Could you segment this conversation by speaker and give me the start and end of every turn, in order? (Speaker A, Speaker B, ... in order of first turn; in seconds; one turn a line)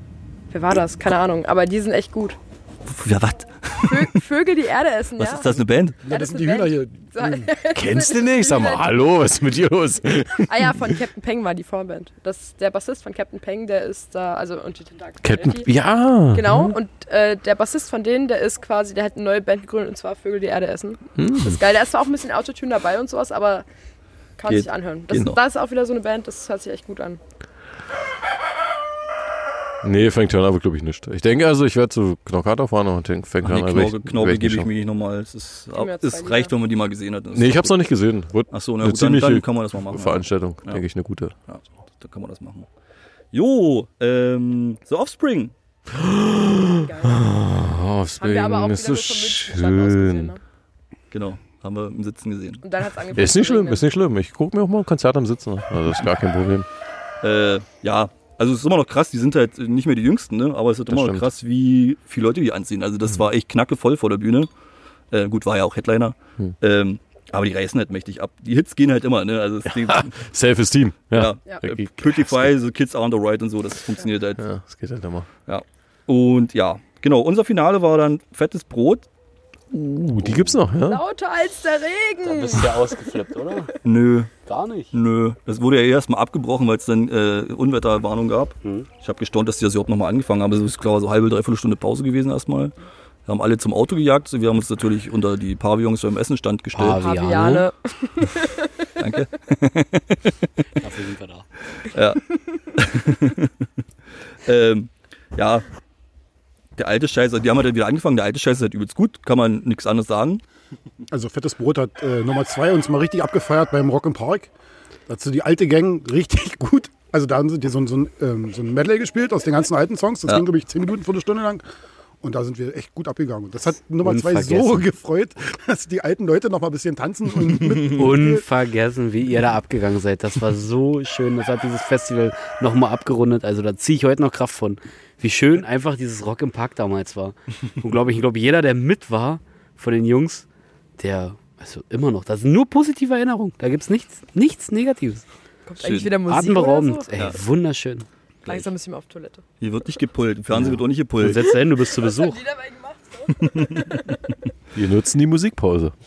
Speaker A: 0.5-2.4
Speaker B: 2.9-4.2
Speaker A: 3.9-5.5
Speaker B: 5.2-6.0
Speaker C: 6.0-7.5
Speaker A: 6.1-9.0
Speaker D: 7.7-10.9
Speaker A: 10.4-15.7
Speaker D: 15.2-16.8
Speaker A: 16.3-23.7
Speaker D: 21.2-21.6
Speaker A: 24.4-27.2
Speaker B: 24.5-25.4
Speaker D: 29.8-34.7
Speaker B: 33.4-37.8
Speaker A: 35.7-36.5
Speaker D: 37.4-41.3
Speaker B: 38.5-40.9
Speaker B: 41.5-42.7
Speaker B: 43.3-45.5
Speaker D: 45.9-50.3
Speaker A: 46.8-47.3
Speaker A: 48.2-50.4
Speaker B: 51.1-52.6
Speaker A: 52.6-53.9
Speaker D: 53.1-56.7
Speaker B: 57.2-64.5
Speaker D: 60.9-61.3
Speaker B: 65.1-70.2
Speaker D: 69.7-72.5
Speaker B: 71.1-74.4
Speaker D: 74.4-75.3
Speaker B: 75.5-79.1
Speaker D: 79.7-81.0
Speaker B: 80.2-80.5
Speaker A: 80.8-83.1
Speaker E: 82.2-83.7
Speaker B: 83.8-84.3
Speaker E: 84.4-84.9
Speaker B: 84.9-92.7
Speaker E: 88.6-88.9
Speaker B: 93.3-97.0
Speaker E: 96.7-97.7
Speaker A: 97.0-98.9
Speaker B: 99.0-100.5
Speaker E: 100.8-101.5
Speaker B: 101.8-103.5
Speaker B: 104.5-105.7
Speaker B: 106.8-110.4
Speaker C: 111.1-114.5
Speaker C: 115.1-121.6
Speaker C: 122.2-128.5
Speaker E: 124.0-124.9
Speaker E: 127.7-140.4
Speaker E: 141.0-145.2
Speaker A: 145.7-147.1
Speaker B: 145.8-146.2
Speaker E: 146.3-148.1
Speaker A: 148.5-149.4
Speaker B: 149.6-151.5
Speaker E: 150.5-152.4
Speaker A: 151.4-154.3
Speaker B: 153.4-153.8
Speaker D: 154.8-155.9